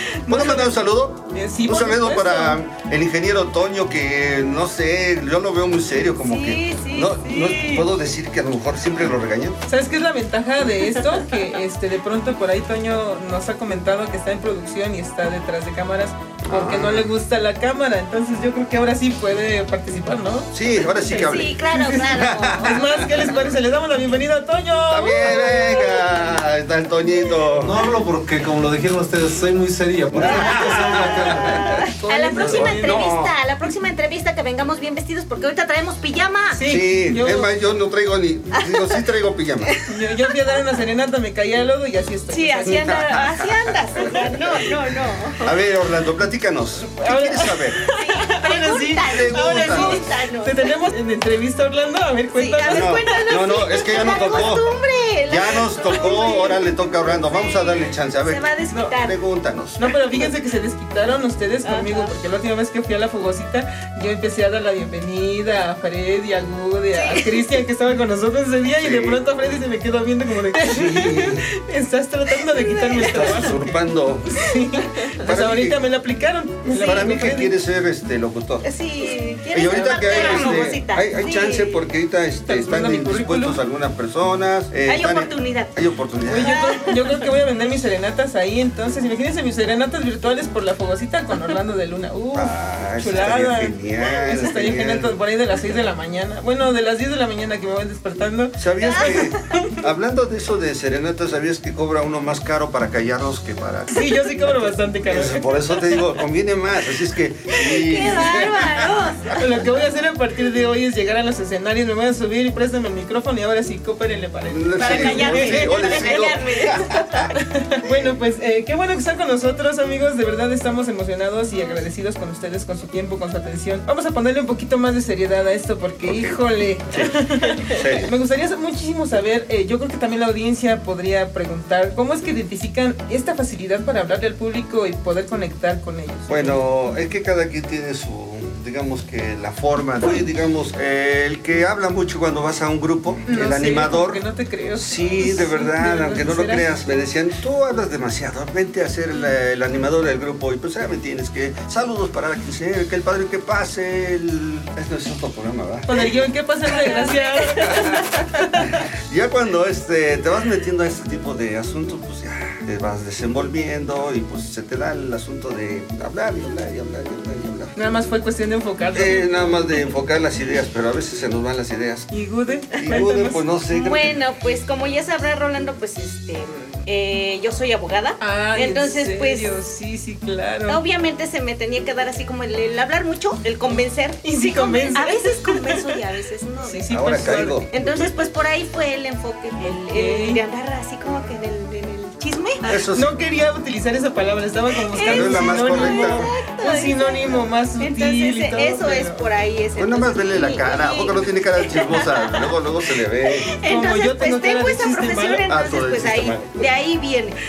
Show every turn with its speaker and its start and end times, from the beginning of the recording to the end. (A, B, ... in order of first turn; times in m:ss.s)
0:00.2-0:00.7 A
0:00.3-0:09.6 B
0:01.3-0:02.6 A
0:06.2-0:07.8 C
0:09.7-0:26.1 A
0:16.4-0:17.1 B
0:20.5-0:23.3 B
0:21.1-0:23.3 C
0:24.9-0:27.8 B
0:25.3-0:25.9 C
0:27.6-0:31.5 D
0:30.1-0:33.3 B
0:30.2-0:36.6 C
0:30.3-0:33.0 A
0:36.5-0:37.5 A
0:36.6-0:39.7 B
0:38.6-0:39.0 C
0:39.9-0:43.2 A
0:42.3-0:45.5 C
0:42.6-0:44.7 B
0:45.4-0:47.8 B
0:46.8-0:53.2 A
0:47.9-0:50.7 C
0:49.0-0:50.1 B
0:52.3-0:59.2 C
0:52.6-0:54.7 B
0:54.0-0:54.5 A
0:55.3-0:59.8 B
0:58.7-0:58.9 A
0:59.8-1:13.7 A
1:01.6-1:02.1 C
1:06.9-1:07.4 C
1:08.8-1:09.2 B
1:10.6-1:11.4 B
1:12.4-1:13.5 C
1:13.0-1:14.3 B
1:14.3-1:17.5 A
1:15.2-1:15.8 B
1:16.6-1:17.1 C
1:16.8-1:18.7 B
1:18.6-1:21.8 C
1:19.5-1:26.6 B
1:20.0-1:20.7 A
1:22.4-1:23.6 A
1:24.8-1:25.8 C
1:26.2-1:39.8 A
1:26.3-1:27.3 C
1:32.3-1:35.2 B
1:38.6-1:43.9 B
1:38.8-1:39.3 C
1:43.9-1:45.9 A
1:45.0-1:49.6 B
1:47.6-1:49.4 C
1:48.0-1:48.4 A
1:49.4-1:56.2 A
1:54.5-1:58.1 B
1:54.8-1:57.3 C
1:57.4-2:16.6 A
2:06.0-2:08.1 B
2:16.3-2:24.2 B
2:23.3-2:26.7 A
2:24.7-2:35.9 B
2:35.9-2:38.8 A
2:36.8-2:38.2 C
2:37.7-2:38.0 B
2:38.6-2:47.8 B
2:47.8-2:49.8 A
2:48.9-2:52.1 B
2:52.1-2:53.4 A
2:52.7-2:54.2 B
2:53.7-2:59.6 C
2:58.2-3:00.8 A
3:00.7-3:12.7 C
3:03.7-3:05.9 A
3:06.6-3:07.7 A
3:06.9-3:08.1 B
3:09.6-3:10.4 A
3:12.7-3:13.1 B
3:12.9-3:19.2 A
3:14.9-3:22.5 C
3:15.0-3:16.3 B
3:19.8-3:23.5 B
3:23.4-3:27.4 C
3:23.6-3:25.4 A
3:25.5-3:26.6 B